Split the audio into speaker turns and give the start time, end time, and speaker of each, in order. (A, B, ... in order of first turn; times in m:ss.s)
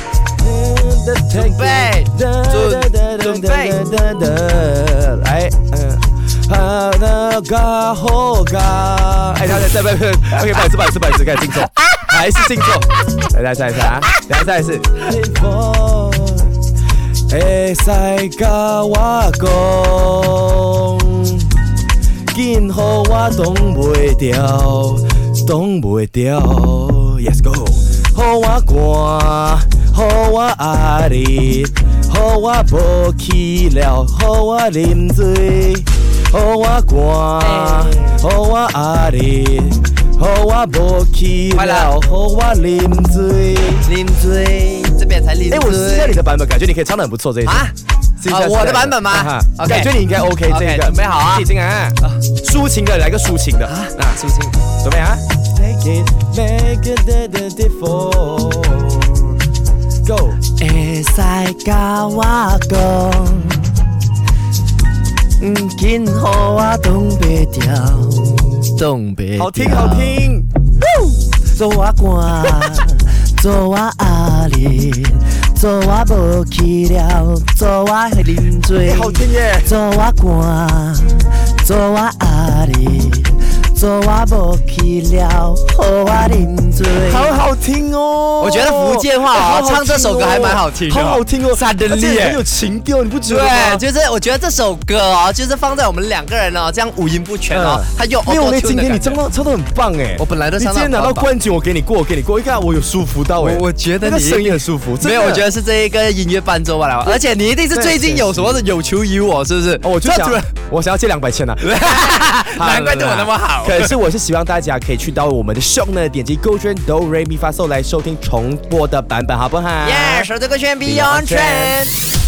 0:00.4-0:16.5 A
0:01.3-0:03.8 B
0:17.3-0:21.5 A
0:22.3-0:43.9 A
0:37.4-0:38.2 B
0:41.5-0:41.9 B
0:43.8-0:46.2 B
0:45.5-0:47.7 A
0:47.4-0:47.7 B
0:48.2-0:54.2 A
0:48.2-0:51.5 B
0:53.6-0:54.6 B
0:54.8-0:59.2 A
1:00.0-1:00.4 A
1:00.5-1:03.8 B
1:05.4-1:10.2 B
1:09.4-1:10.5 A
1:10.9-1:27.3 B
1:18.8-1:19.7 A
1:27.0-1:33.8 A
1:28.4-1:32.4 B
1:33.2-1:39.2 B
1:37.5-1:45.5 A
1:40.2-1:41.3 B
1:43.4-1:50.5 B
1:47.7-1:48.6 A
1:49.8-1:51.8 A
1:51.6-1:53.9 B
1:52.4-2:00.3 A
1:59.8-2:01.9 B
2:00.8-2:01.8 A